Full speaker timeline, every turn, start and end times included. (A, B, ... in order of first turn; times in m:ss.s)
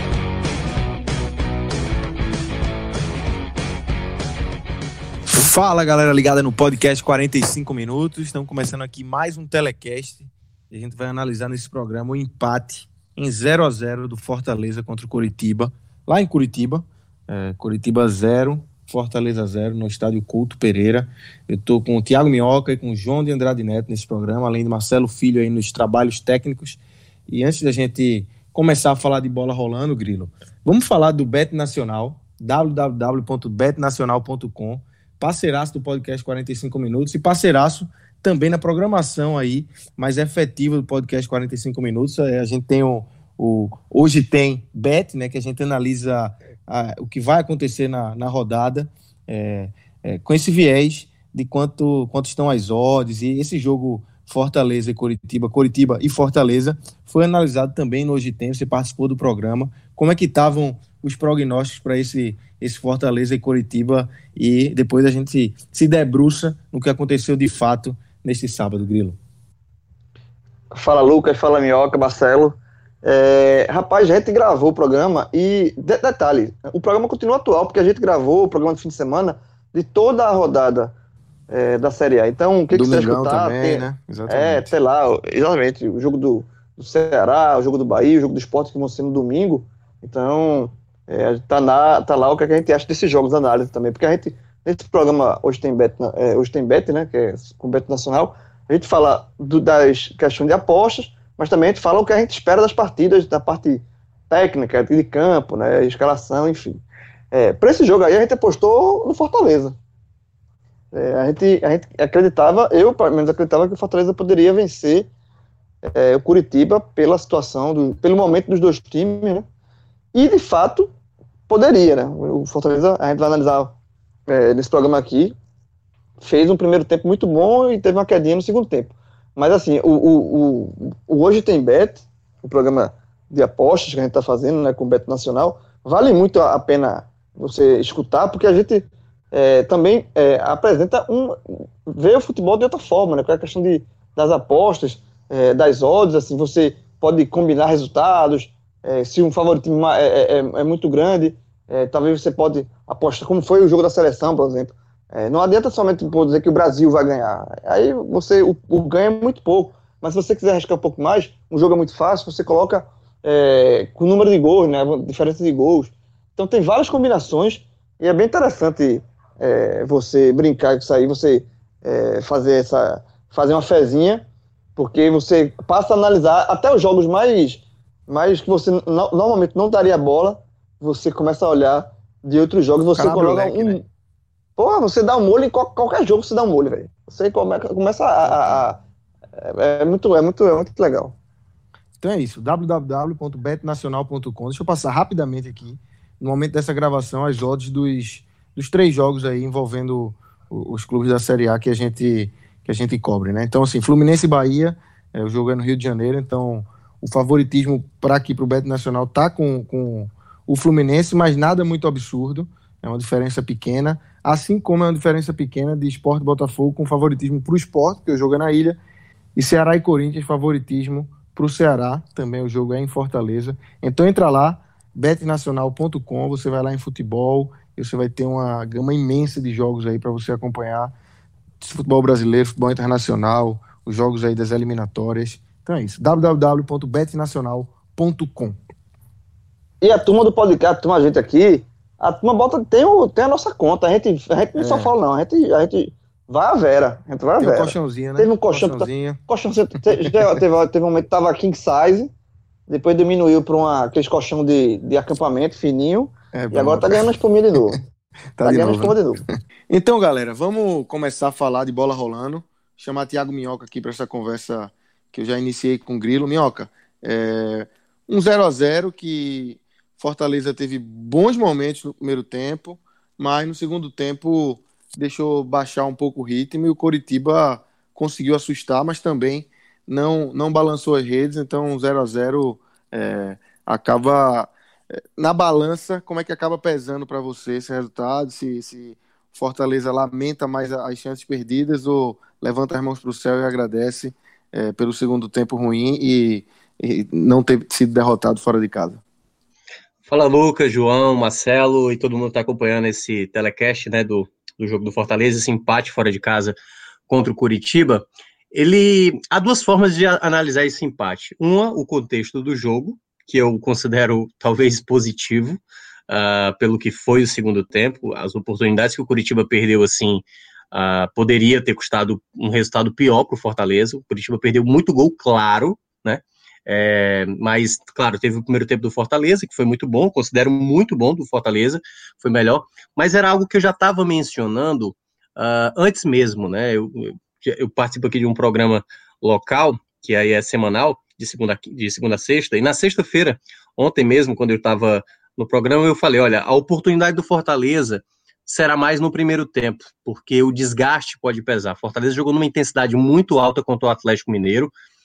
0:05.3-1:09.2 A
1:10.7-1:20.9 B
1:21.5-1:49.8 B
1:22.7-1:24.7 A
1:50.9-1:55.1 B
1:55.8-1:59.4 B
2:00.1-2:00.9 B
2:01.5-2:03.8 B
2:04.3-2:05.3 B
2:06.2-2:54.2 B
2:54.8-3:03.8 B
3:02.9-3:03.8 A
3:04.6-3:08.8 B
3:08.2-3:08.7 A
3:09.4-3:11.2 B
3:12.0-3:38.8 A
3:39.4-3:50.9 A
3:51.6-3:58.6 A
3:59.8-4:12.1 B
4:04.6-4:04.9 A
4:07.4-4:09.2 A
4:12.7-4:17.8 B
4:16.3-4:17.0 A
4:18.4-4:44.5 A
4:18.4-4:19.2 B
4:45.2-4:59.0 A
5:00.0-5:06.5 C
5:07.1-5:54.7 C